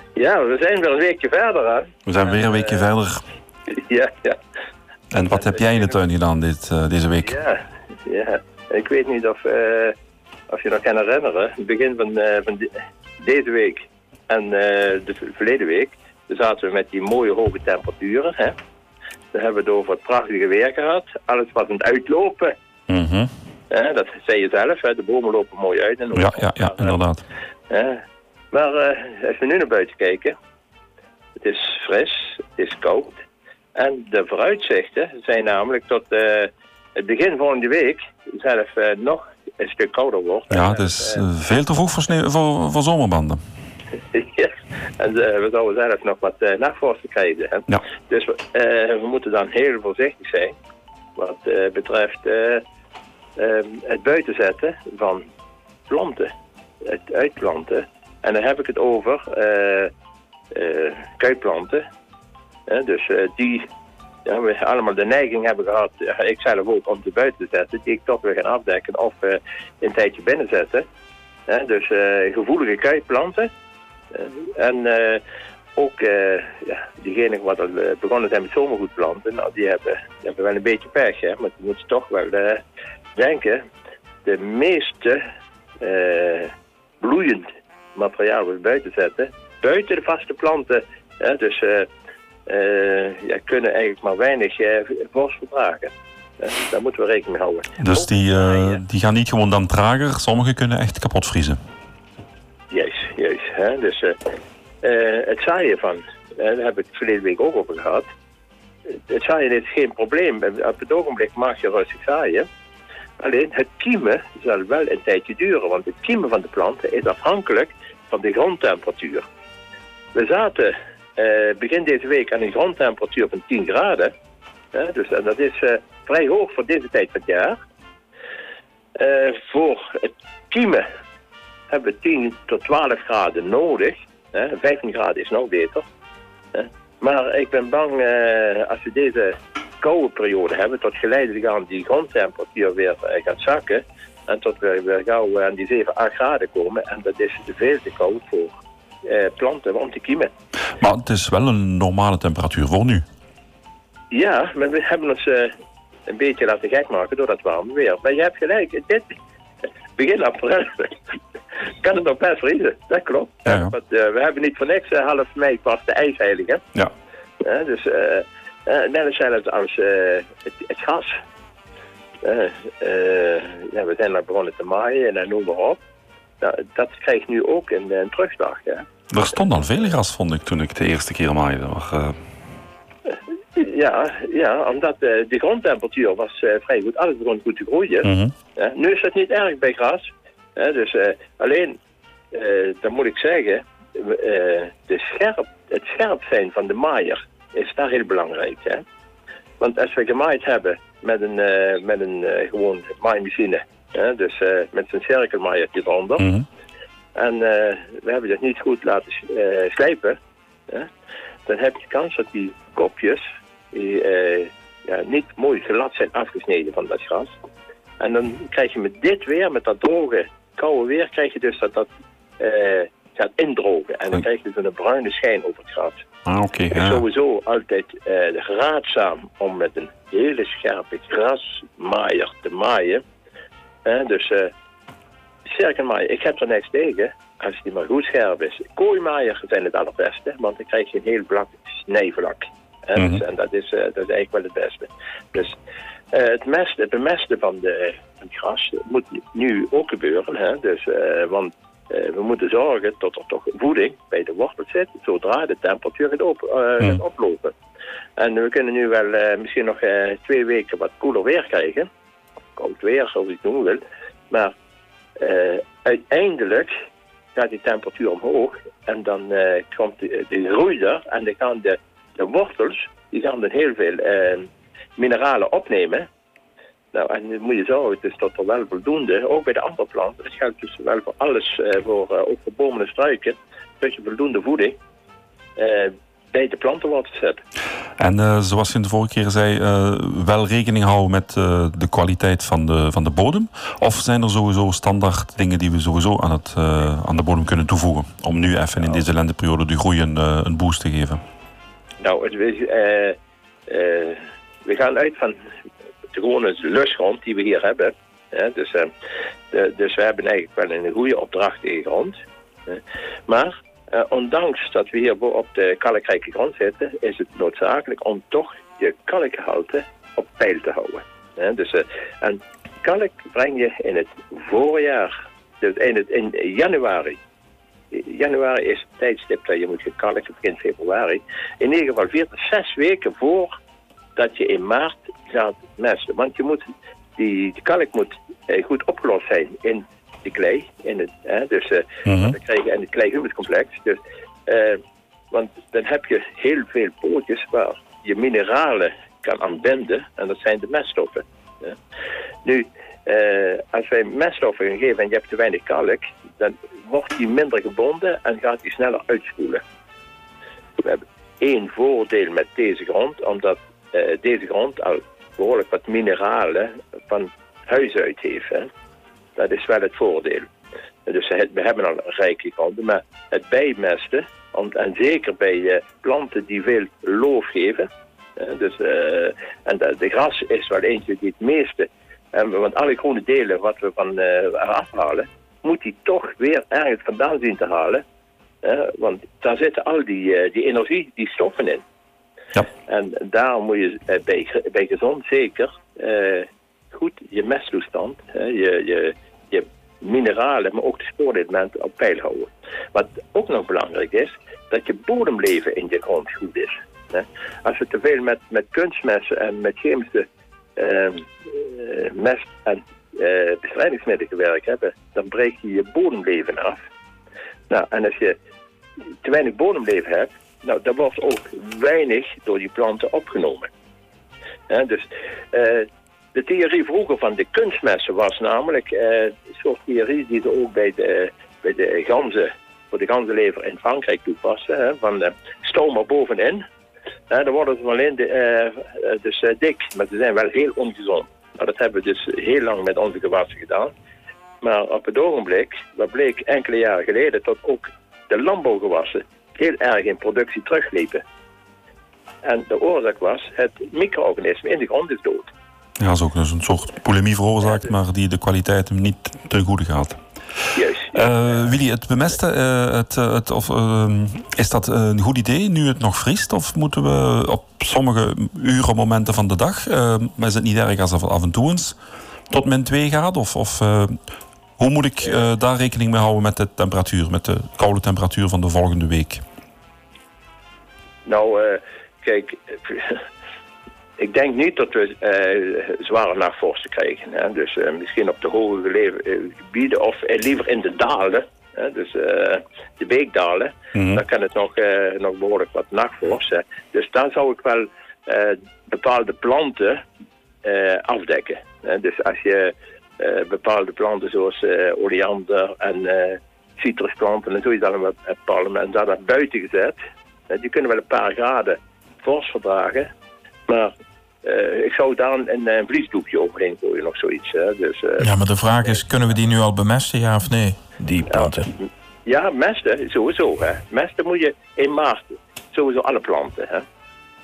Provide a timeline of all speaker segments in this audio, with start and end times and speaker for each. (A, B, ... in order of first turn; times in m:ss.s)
0:00.2-0:02.9 A
0:02.1-0:03.2 B
0:03.7-0:04.4 A
0:05.1-0:07.4 B
0:05.3-0:06.0 A
0:07.2-0:10.0 A
0:10.5-0:18.6 A
0:19.3-0:22.5 A
0:22.9-0:23.3 B
0:23.7-0:27.0 A
0:26.1-0:27.2 B
0:27.7-0:30.3 A
0:31.4-0:33.2 A
0:33.8-0:41.2 A
0:40.5-0:43.4 B
0:44.1-0:50.5 A
0:51.2-0:52.6 A
0:53.4-0:55.2 A
0:55.9-0:56.3 A
0:56.8-0:59.9 A
1:00.5-1:01.8 A
1:02.7-1:03.7 A
1:04.3-1:10.8 A
1:11.5-1:13.5 A
1:14.1-1:15.2 A
1:15.8-1:22.6 A
1:23.2-1:23.6 A
1:24.2-1:25.2 A
1:25.8-1:31.9 A
1:32.5-1:38.8 A
1:37.8-1:41.6 B
1:42.7-1:44.2 A
1:44.8-1:48.1 A
1:48.9-1:52.5 A
1:53.2-1:59.2 A
2:00.1-2:04.1 A
2:04.7-2:07.6 A
2:09.0-2:10.8 A
2:11.7-2:15.8 A
2:16.5-2:28.5 A
2:29.0-2:30.3 A
2:30.8-2:33.0 B
2:34.1-2:35.5 A
2:36.1-2:39.0 A
2:40.0-2:41.0 A
2:41.8-2:46.6 A
2:43.5-2:43.7 B
2:47.4-2:51.1 A
2:52.2-2:55.8 A
2:56.4-2:58.9 A
2:59.1-3:02.2 B
3:03.6-3:11.8 A
3:08.0-3:08.3 B
3:12.3-3:18.8 A
3:19.6-3:26.3 A
3:26.2-3:26.5 B
3:27.2-3:30.2 A
3:31.5-3:37.3 A
3:38.0-3:41.9 A
3:42.4-3:46.0 A
3:46.3-3:47.0 B
3:46.7-3:53.0 A
3:53.9-3:54.5 A
3:55.5-4:05.6 A
4:03.0-4:03.2 B
4:06.1-4:17.5 A
4:18.2-4:21.9 A
4:22.6-4:24.5 A
4:25.2-4:26.7 A
4:27.4-4:36.0 A
4:36.9-4:44.8 A
4:45.6-4:47.4 A
4:48.0-5:01.2 B
5:02.0-5:03.2 A
5:03.7-5:05.4 A
5:06.1-5:08.9 A
5:09.5-5:12.2 A
5:12.7-5:27.2 A
5:27.9-5:33.5 A
5:34.2-5:36.6 A
5:37.2-5:44.8 A
5:42.1-5:42.4 B
5:45.3-5:51.8 A
5:52.4-5:59.6 A
6:00.8-6:08.7 A
6:09.4-6:10.5 A
6:11.1-6:17.9 A
6:18.4-6:28.0 A
6:28.6-6:31.8 A
6:32.9-6:50.2 A
6:50.8-6:56.8 A
6:57.7-6:58.4 A
6:59.2-7:03.7 A
7:04.7-7:16.6 A
7:17.3-7:23.9 A
7:24.6-7:31.2 A
7:32.4-7:35.5 A
7:36.0-7:40.2 B
7:40.8-7:41.2 A
7:41.1-7:52.0 B
7:52.5-7:54.2 B
7:54.8-7:59.4 B
8:01.3-8:03.2 A
8:04.2-8:20.0 A
8:14.0-8:14.2 B
8:20.6-8:30.0 A
8:30.5-8:33.1 A
8:33.7-8:33.9 A
8:34.4-8:38.3 A
8:38.2-8:41.7 C
8:41.3-8:46.8 A